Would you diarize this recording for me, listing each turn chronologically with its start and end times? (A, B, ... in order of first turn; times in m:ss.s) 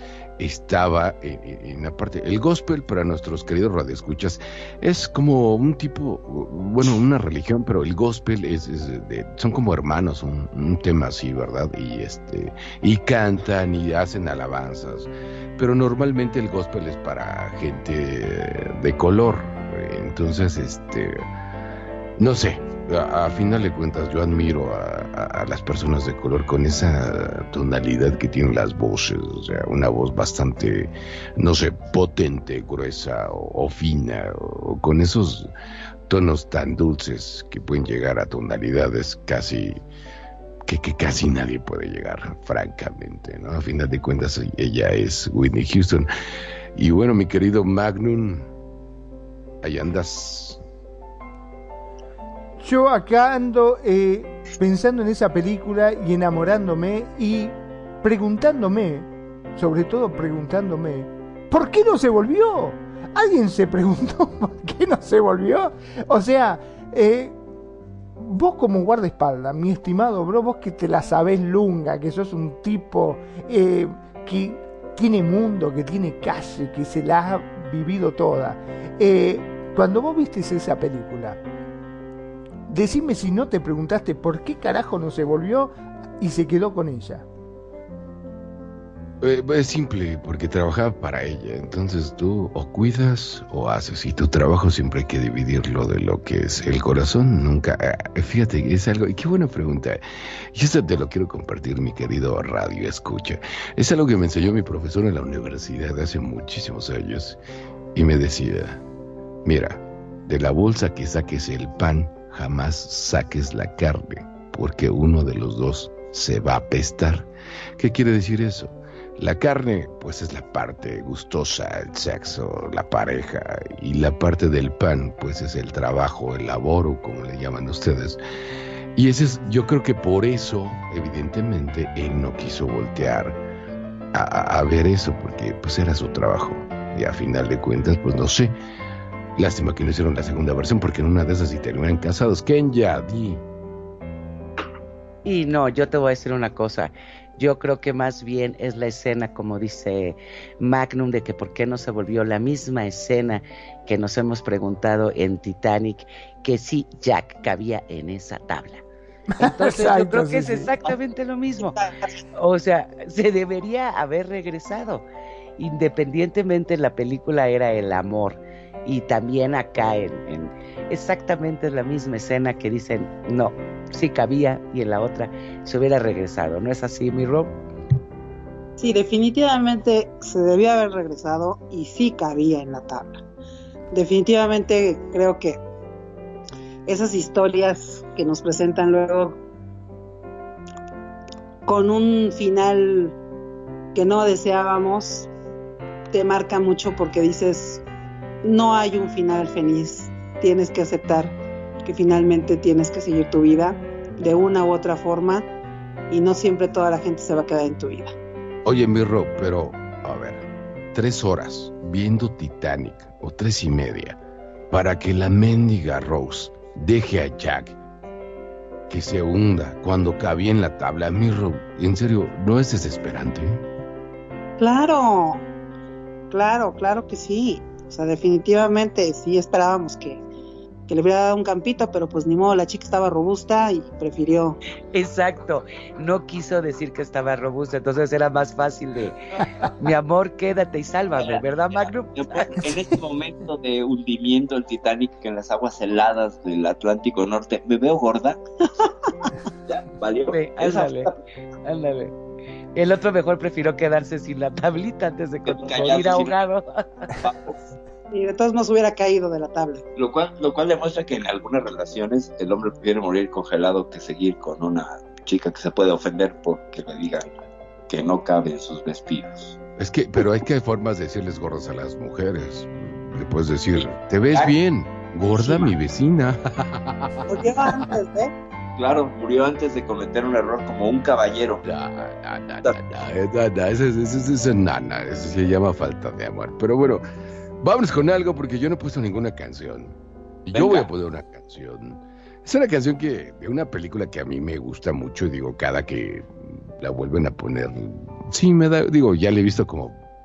0:00.4-0:21.2 A
0:22.2-0:35.5 A
0:36.1-0:39.8 A
0:40.6-0:46.1 A
0:46.8-0:48.5 A
0:49.6-0:50.6 A
0:52.6-1:07.4 B
1:08.2-1:21.4 B
1:22.7-1:27.2 B
1:29.2-1:40.0 A
1:40.5-1:47.4 A
1:47.9-1:48.8 A
1:49.4-1:57.3 A
1:57.8-2:08.2 A
2:09.0-2:13.4 A
2:14.1-2:18.5 A
2:19.4-2:23.4 A
2:25.2-2:38.8 C
2:39.3-2:40.7 B
2:39.4-2:41.8 C
2:42.3-2:45.0 C
2:45.6-2:57.5 C
2:58.8-3:03.2 D
3:03.9-3:05.6 D
3:06.9-3:09.4 D
3:11.6-3:13.1 D
3:13.9-3:15.3 D
3:16.1-3:17.8 D
3:18.4-3:25.4 D
3:26.1-3:28.1 D
3:28.6-3:34.2 A
3:34.7-3:37.8 A
3:38.9-3:43.6 A
3:44.6-3:45.4 D
3:46.3-3:50.2 D
3:50.9-3:54.6 D
3:54.9-4:02.7 C
4:01.1-4:08.4 E
4:09.7-4:11.2 E
4:10.3-4:11.1 C
4:11.6-4:12.1 C
4:12.8-4:16.8 C
4:15.4-4:16.4 E
4:17.2-4:17.6 E
4:18.1-4:19.8 D
4:20.0-4:27.3 E
4:27.9-4:29.6 E
4:29.8-4:37.9 A
4:33.8-4:34.6 E
4:35.3-4:35.7 E
4:37.3-4:38.3 D
4:38.8-4:41.6 E
4:41.6-4:47.0 A
4:47.6-4:50.0 A
4:50.5-5:00.0 A
4:50.5-4:50.9 E